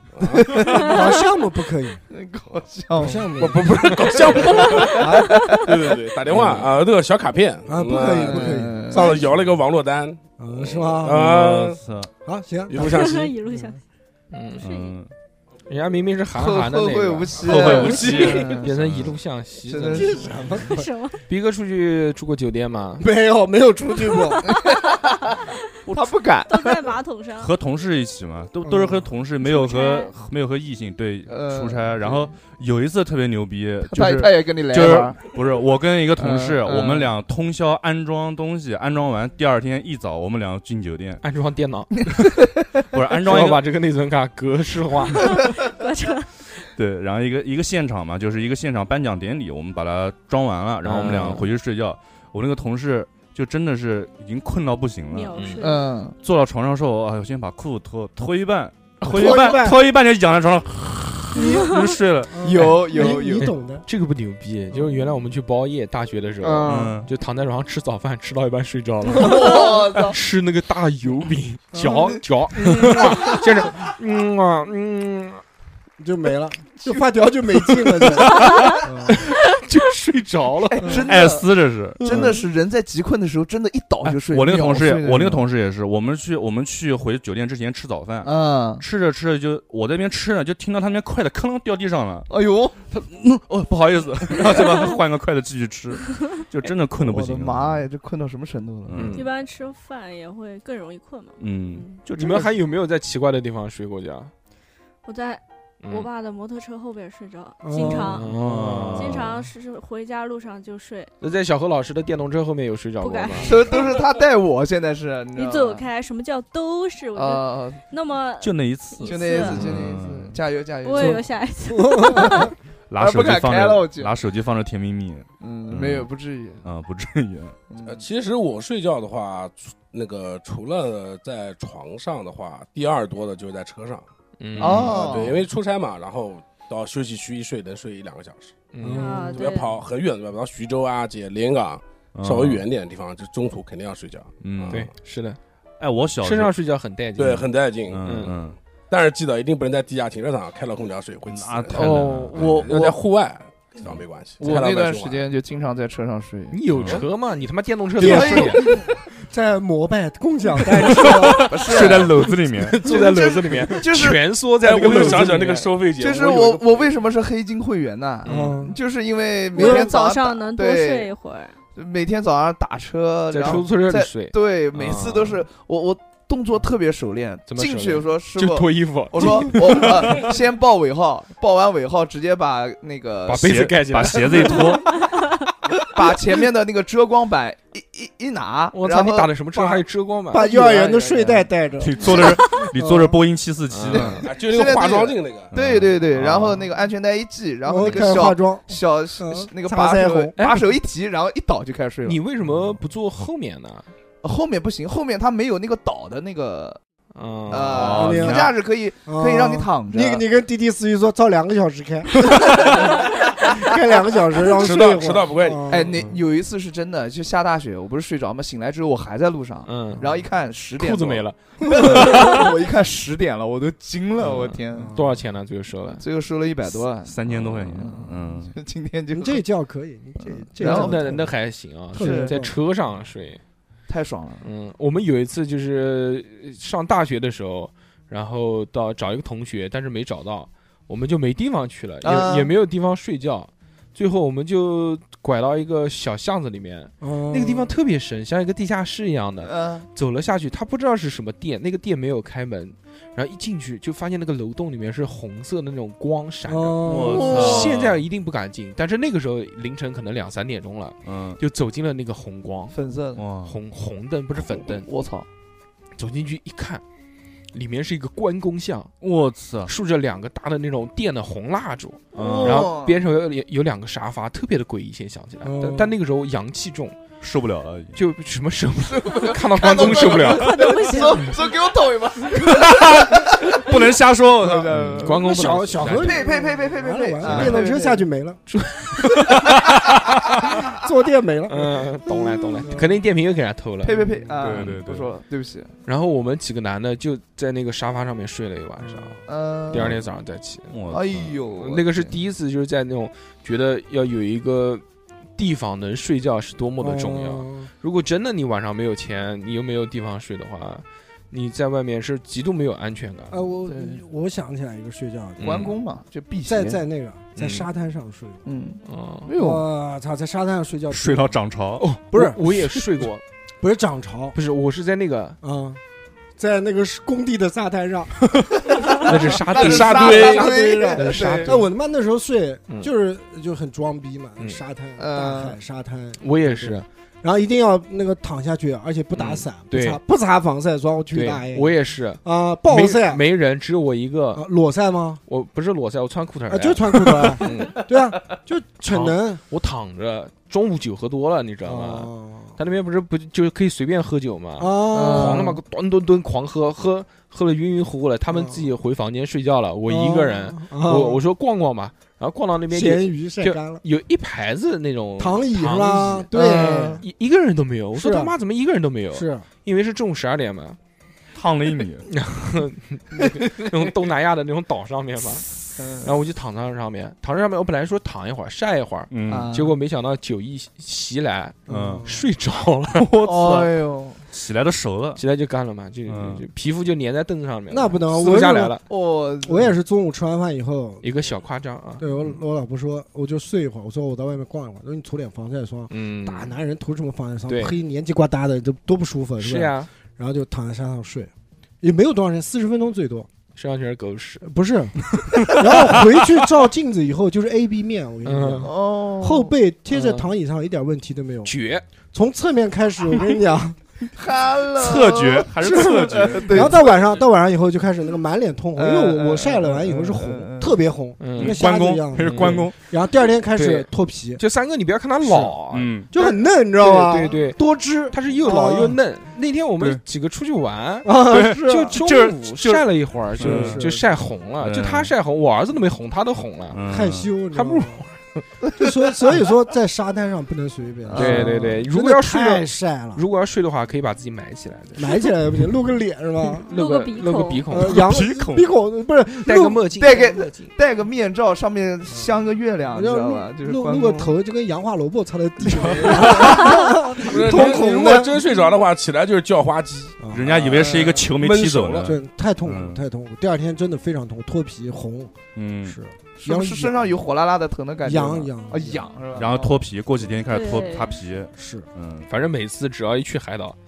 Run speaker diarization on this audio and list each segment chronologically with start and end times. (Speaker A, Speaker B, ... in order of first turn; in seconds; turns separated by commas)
Speaker A: 0.1-0.6, Speaker B: 0.3-1.1, Speaker C: 0.6-2.0, Speaker B: 2.1-5.7, Speaker C: 3.0-3.9, Speaker A: 3.4-11.8, Speaker C: 4.9-5.4, Speaker C: 7.7-9.3, Speaker B: 8.0-9.2, Speaker C: 10.4-11.2, Speaker D: 11.1-12.1, Speaker C: 12.2-13.7, Speaker A: 12.7-13.3, Speaker E: 12.7-13.8, Speaker F: 14.3-14.7, Speaker E: 14.6-15.0, Speaker D: 14.6-15.1, Speaker F: 15.7-20.2, Speaker B: 16.3-18.7, Speaker D: 17.4-19.2, Speaker B: 19.6-20.4, Speaker C: 19.9-20.9, Speaker E: 20.6-21.2, Speaker F: 21.3-23.1, Speaker C: 23.0-24.5, Speaker B: 24.4-24.9, Speaker B: 25.9-26.9, Speaker E: 26.5-27.5, Speaker D: 27.4-41.2, Speaker C: 28.6-29.1, Speaker E: 29.4-30.1, Speaker B: 31.3-32.3, Speaker B: 33.9-35.3, Speaker B: 36.1-37.1, Speaker F: 41.2-42.2, Speaker D: 42.9-43.6, Speaker F: 43.2-45.4, Speaker E: 45.1-46.3, Speaker D: 46.7-55.5, Speaker F: 50.8-51.5, Speaker E: 55.1-55.9, Speaker F: 55.3-55.7, Speaker B: 55.6-56.1, Speaker D: 56.2-62.7, Speaker C: 59.0-59.8, Speaker C: 62.3-63.9, Speaker B: 62.4-63.5, Speaker F: 63.3-75.4, Speaker C: 66.4-67.0, Speaker D: 66.6-67.1, Speaker B: 69.1-70.2, Speaker C: 71.7-73.4, Speaker C: 76.0-79.2, Speaker F: 79.3-81.0, Speaker B: 80.7-85.4, Speaker D: 81.0-82.3, Speaker F: 82.0-82.4, Speaker D: 84.0-92.3, Speaker B: 88.2-88.8, Speaker B: 92.3-92.8, Speaker D: 92.9-97.9, Speaker B: 94.3-94.8, Speaker B: 97.0-99.1, Speaker D: 98.8-99.3, Speaker F: 98.9-99.3, Speaker E: 99.1-102.0, Speaker D: 101.4-102.5, Speaker F: 102.1-104.3, Speaker E: 105.0-108.3, Speaker F: 105.8-106.1, Speaker C: 107.6-108.2, Speaker F: 107.9-109.2, Speaker D: 108.3-109.5, Speaker E: 108.9-111.1, Speaker F: 111.2-113.5, Speaker E: 113.0-114.0, Speaker B: 113.4-115.9, Speaker E: 115.3-119.7, Speaker B: 117.1-117.8, Speaker D: 118.4-120.4, Speaker B: 119.0-121.2, Speaker E: 120.8-122.5, Speaker C: 121.8-122.5, Speaker D: 122.9-126.1, Speaker B: 123.0-124.2, Speaker B: 125.4-126.6, Speaker D: 126.6-127.5, Speaker B: 127.7-128.0, Speaker A: 127.8-134.1, Speaker F: 134.4-135.0, Speaker B: 134.6-135.4, Speaker A: 134.6-138.6, Speaker F: 138.7-139.2, Speaker C: 138.8-139.5, Speaker E: 138.9-139.7, Speaker A: 139.3-144.9, Speaker D: 142.1-142.6, Speaker D: 144.4-144.8, Speaker F: 144.7-145.4, Speaker D: 145.8-146.5, Speaker F: 146.2-147.5, Speaker A: 147.2-148.2, Speaker D: 147.9-148.6, Speaker F: 148.0-148.3, Speaker A: 148.9-155.3, Speaker D: 151.3-152.7, Speaker B: 151.8-153.0, Speaker F: 151.9-152.3, Speaker B: 154.4-157.0, Speaker F: 156.5-158.6, Speaker D: 156.7-157.0, Speaker C: 158.0-161.5, Speaker B: 158.0-158.9, Speaker B: 160.9-162.3, Speaker D: 161.3-162.8, Speaker F: 162.6-165.7, Speaker B: 162.8-164.2, Speaker A: 164.6-166.9, Speaker B: 164.9-165.4, Speaker B: 165.9-171.1, Speaker F: 168.2-168.6, Speaker C: 168.2-168.8, Speaker E: 169.5-171.6, Speaker C: 169.5-169.9, Speaker B: 171.7-183.7, Speaker F: 173.3-175.4, Speaker F: 177.5-180.2, Speaker F: 183.3-184.8, Speaker D: 183.4-184.9, Speaker B: 184.3-184.6, Speaker B: 185.8-191.5, Speaker F: 188.7-190.5, Speaker C: 190.3-193.2, Speaker D: 191.8-194.2, Speaker B: 192.0-192.4, Speaker F: 193.7-194.2, Speaker B: 193.9-202.2, Speaker A: 194.2-195.5, Speaker D: 195.5-196.6, Speaker C: 197.6-200.3, Speaker F: 200.4-200.7, Speaker F: 202.0-203.9, Speaker B: 204.2-206.8, Speaker F: 207.1-208.0, Speaker B: 207.5-210.2, Speaker D: 207.7-208.6, Speaker C: 207.9-208.5, Speaker C: 209.1-216.0, Speaker B: 213.0-213.6, Speaker A: 214.5-215.7, Speaker B: 215.7-224.9, Speaker F: 219.6-220.1, Speaker F: 220.8-222.5, Speaker C: 221.6-222.2, Speaker F: 224.2-226.0, Speaker C: 224.7-225.2, Speaker B: 226.0-229.4, Speaker D: 227.0-228.5, Speaker C: 229.1-231.3, Speaker B: 230.2-231.2, Speaker F: 230.6-233.4, Speaker C: 231.9-232.5, Speaker B: 232.0-232.4, Speaker B: 233.9-234.5, Speaker F: 234.4-262.8, Speaker B: 242.0-242.5, Speaker C: 247.0-247.7, Speaker B: 249.4-249.9, Speaker C: 256.4-257.5, Speaker D: 256.8-258.0, Speaker B: 257.0-257.7, Speaker D: 261.0-261.4, Speaker B: 262.7-263.2, Speaker D: 263.1-263.6, Speaker F: 263.4-264.9, Speaker B: 264.5-265.3, Speaker F: 266.0-266.8, Speaker F: 267.5-268.9, Speaker D: 269.0-269.7, Speaker F: 269.6-277.0, Speaker D: 272.1-272.7, Speaker B: 272.1-273.0, Speaker C: 275.4-275.9, Speaker D: 277.2-278.0, Speaker F: 277.9-280.6, Speaker B: 278.9-288.1, Speaker E: 280.3-281.2, Speaker D: 282.4-285.1, Speaker F: 284.8-286.2, Speaker C: 285.2-288.4, Speaker D: 287.2-287.6, Speaker F: 288.5-289.6, Speaker C: 290.7-291.9, Speaker F: 291.5-294.0, Speaker C: 292.6-293.0, Speaker B: 293.8-295.7, Speaker C: 294.1-294.6, Speaker D: 294.4-295.1, Speaker F: 295.9-300.7, Speaker C: 298.8-299.2, Speaker B: 299.2-300.0, Speaker D: 300.7-301.5, Speaker B: 300.9-302.1, Speaker F: 301.6-304.8, Speaker F: 305.4-313.4, Speaker C: 306.8-307.7, Speaker C: 313.3-315.7, Speaker B: 313.6-314.0, Speaker F: 315.4-315.7, Speaker B: 315.4-316.8, Speaker C: 316.4-318.4, Speaker F: 317.4-317.7, Speaker B: 318.4-319.6, Speaker F: 318.8-319.3, Speaker C: 319.3-321.4, Speaker D: 320.9-321.9, Speaker F: 321.8-323.2, Speaker C: 322.1-323.0, Speaker C: 323.6-324.4, Speaker F: 324.3-325.4, Speaker C: 325.4-325.8, Speaker C: 326.4-328.2, Speaker B: 328.7-331.6, Speaker F: 329.0-331.6, Speaker C: 329.7-343.2, Speaker B: 335.0-335.6, Speaker F: 336.2-336.9, Speaker F: 339.1-340.0, Speaker F: 341.1-344.4, Speaker C: 344.3-345.2, Speaker F: 345.3-347.8, Speaker C: 346.5-349.4, Speaker F: 348.9-370.8, Speaker C: 351.6-352.6, Speaker C: 354.6-355.6, Speaker B: 354.9-355.6, Speaker C: 358.3-358.6, Speaker C: 359.9-361.2, Speaker C: 362.7-363.8, Speaker C: 365.2-367.0, Speaker B: 366.3-367.0, Speaker C: 367.9-368.3, Speaker C: 369.1-369.5, Speaker D: 371.3-372.1, Speaker F: 372.1-383.5, Speaker B: 375.8-376.1, Speaker D: 379.1-379.5, Speaker B: 379.2-379.8, Speaker C: 381.7-382.1, Speaker D: 381.7-382.1, Speaker D: 383.1-383.7, Speaker B: 383.2-384.2, Speaker D: 384.3-385.2, Speaker F: 385.1-388.8, Speaker D: 386.1-386.4, Speaker C: 387.7-388.8, Speaker B: 388.9-389.7, Speaker C: 389.4-391.0, Speaker F: 391.0-392.1, Speaker C: 392.0-401.3, Speaker F: 395.9-396.6, Speaker F: 397.5-397.8, Speaker F: 399.4-399.9, Speaker C: 401.8-403.3, Speaker F: 403.5-404.4, Speaker C: 404.4-411.5, Speaker F: 405.5-405.9, Speaker F: 408.2-408.7, Speaker B: 408.6-409.5, Speaker F: 409.9-410.2, Speaker F: 411.4-411.8, Speaker C: 412.1-413.8, Speaker B: 414.1-417.0, Speaker D: 414.7-416.9, Speaker C: 415.6-424.4, Speaker B: 418.8-420.8, Speaker F: 421.2-422.7, Speaker D: 421.4-422.7, Speaker F: 423.6-436.8, Speaker C: 425.2-425.6, Speaker D: 425.7-426.1, Speaker C: 426.1-429.0, Speaker C: 431.0-432.0, Speaker D: 431.3-433.9, Speaker C: 433.4-434.0, Speaker D: 434.6-435.1, Speaker D: 436.7-437.3, Speaker C: 436.9-438.0, Speaker F: 437.5-438.4, Speaker C: 438.7-443.2, Speaker B: 441.1-441.7, Speaker F: 441.1-445.3, Speaker C: 444.9-446.7, Speaker E: 446.6-447.7, Speaker F: 446.7-448.1, Speaker C: 447.7-449.9, Speaker D: 448.0-448.7, Speaker F: 449.4-450.7, Speaker B: 450.0-454.3, Speaker C: 452.1-452.4, Speaker C: 452.9-458.4, Speaker B: 455.7-456.7, Speaker A: 457.2-462.1, Speaker C: 460.2-460.5, Speaker D: 460.3-463.0, Speaker B: 460.8-461.3, Speaker C: 462.0-467.2, Speaker D: 465.5-466.0, Speaker B: 466.4-469.8, Speaker C: 468.0-469.1, Speaker D: 469.3-472.3, Speaker E: 470.5-471.2, Speaker C: 471.6-471.9, Speaker F: 472.3-473.8